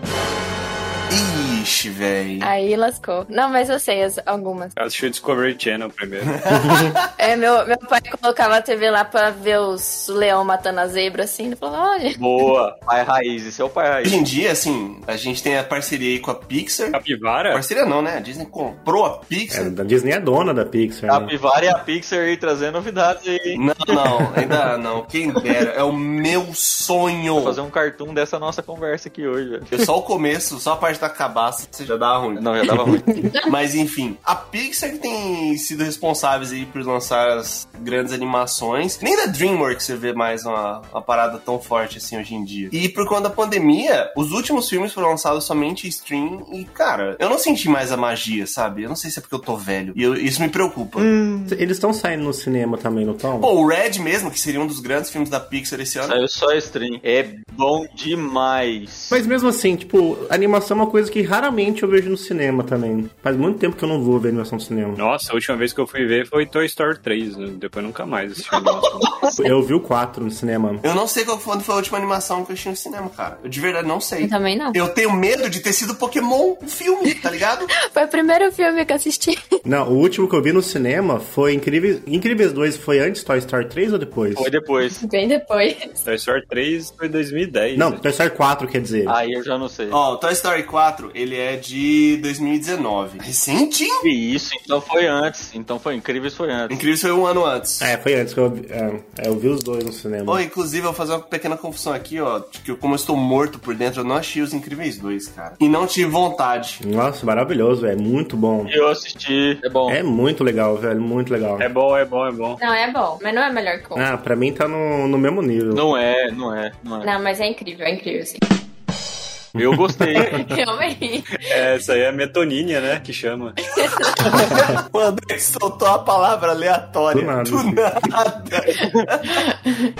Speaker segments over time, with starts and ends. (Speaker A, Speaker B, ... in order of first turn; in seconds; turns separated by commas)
Speaker A: 1.1-2.5, Speaker B: 2.4-4.7, Speaker C: 4.8-6.3, Speaker A: 6.4-7.0, Speaker D: 6.6-6.9, Speaker B: 7.2-12.2, Speaker E: 12.2-14.2, Speaker A: 14.0-19.7, Speaker C: 16.9-17.6, Speaker D: 19.5-21.3, Speaker E: 21.1-24.3, Speaker A: 23.5-27.6, Speaker E: 27.4-29.8, Speaker A: 29.7-51.1, Speaker E: 32.4-33.2, Speaker E: 51.0-51.6, Speaker D: 51.5-53.5, Speaker A: 53.4-56.2, Speaker E: 56.0-59.2, Speaker D: 59.1-65.0, Speaker C: 65.0-69.3, Speaker D: 69.4-70.8, Speaker A: 70.8-77.7, Speaker B: 74.2-74.8, Speaker B: 77.8-79.4, Speaker D: 79.6-84.5, Speaker E: 84.3-85.0, Speaker B: 85.0-86.0, Speaker C: 86.0-88.0, Speaker D: 87.7-89.2, Speaker E: 89.0-90.0, Speaker A: 89.9-94.0, Speaker E: 94.0-96.8, Speaker A: 96.7-97.9, Speaker D: 97.8-100.4, Speaker A: 100.2-106.8, Speaker D: 106.8-108.7, Speaker E: 108.7-110.0, Speaker D: 109.9-111.7, Speaker C: 111.6-112.6, Speaker B: 112.6-114.0, Speaker D: 113.9-115.8, Speaker E: 115.7-117.1, Speaker B: 117.0-118.4, Speaker D: 119.5-120.4, Speaker E: 119.6-120.3, Speaker B: 120.2-121.4, Speaker C: 121.4-123.6, Speaker B: 123.8-124.2, Speaker A: 124.2-129.4, Speaker D: 127.1-127.9, Speaker B: 129.3-129.8